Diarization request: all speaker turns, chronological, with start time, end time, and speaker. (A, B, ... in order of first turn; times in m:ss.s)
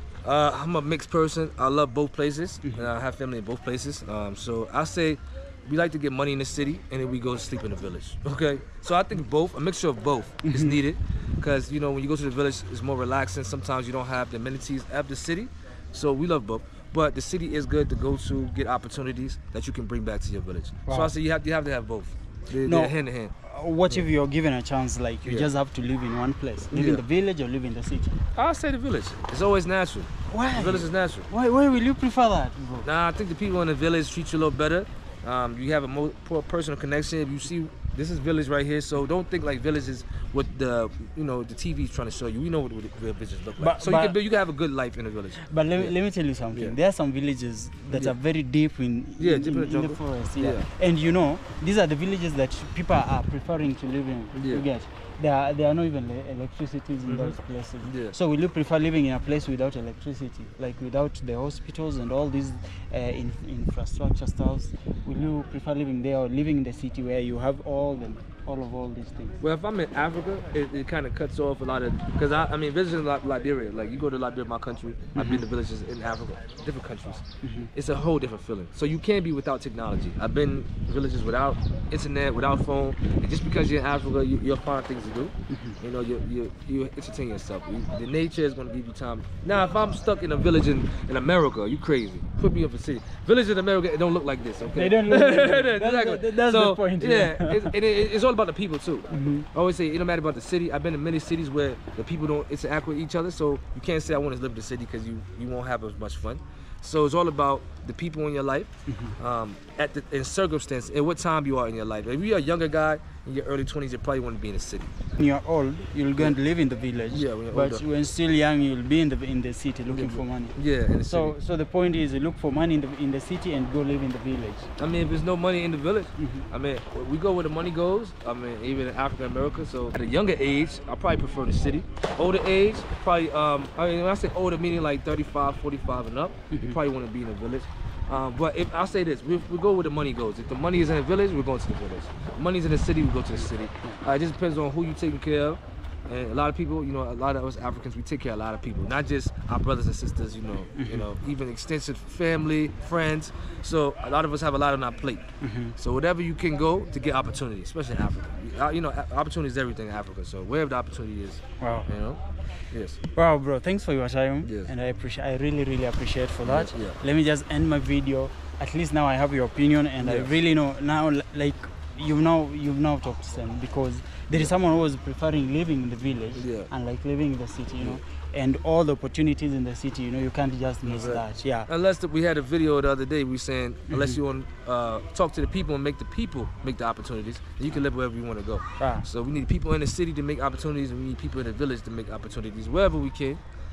0:00.2-0:23.3 A
0:10.4-0:10.8 B
0:20.8-0:21.1 B
0:22.6-0:28.2 B
0:25.2-0:25.5 A
0:26.7-0:27.0 A
0:28.3-0:31.3 A
0:30.3-0:32.9 B
0:32.8-0:45.9 A
0:43.6-0:44.2 B
0:45.4-1:09.4 B
0:47.9-0:48.1 A
0:49.2-0:50.7 A
0:54.3-0:54.6 A
0:57.0-0:58.1 A
1:09.4-1:54.9 A
1:15.1-1:15.4 B
1:17.4-1:17.7 B
1:25.5-1:25.8 B
1:34.7-1:37.8 B
1:39.1-1:39.5 B
1:48.9-1:49.2 B
1:55.2-2:04.7 B
1:57.1-1:57.8 A
1:59.9-2:01.4 A
2:04.8-2:43.0 A
2:06.2-2:06.4 B
2:16.5-2:16.8 B
2:23.3-2:24.0 B
2:30.7-2:31.1 B
2:35.4-2:35.7 B
2:41.6-2:41.9 B
2:43.1-3:01.7 B
2:44.4-2:44.7 A
2:46.4-2:47.0 A
2:50.0-2:50.3 A
2:56.3-2:56.7 A
3:00.8-3:13.4 A
3:03.9-3:04.2 B
3:08.8-3:09.1 B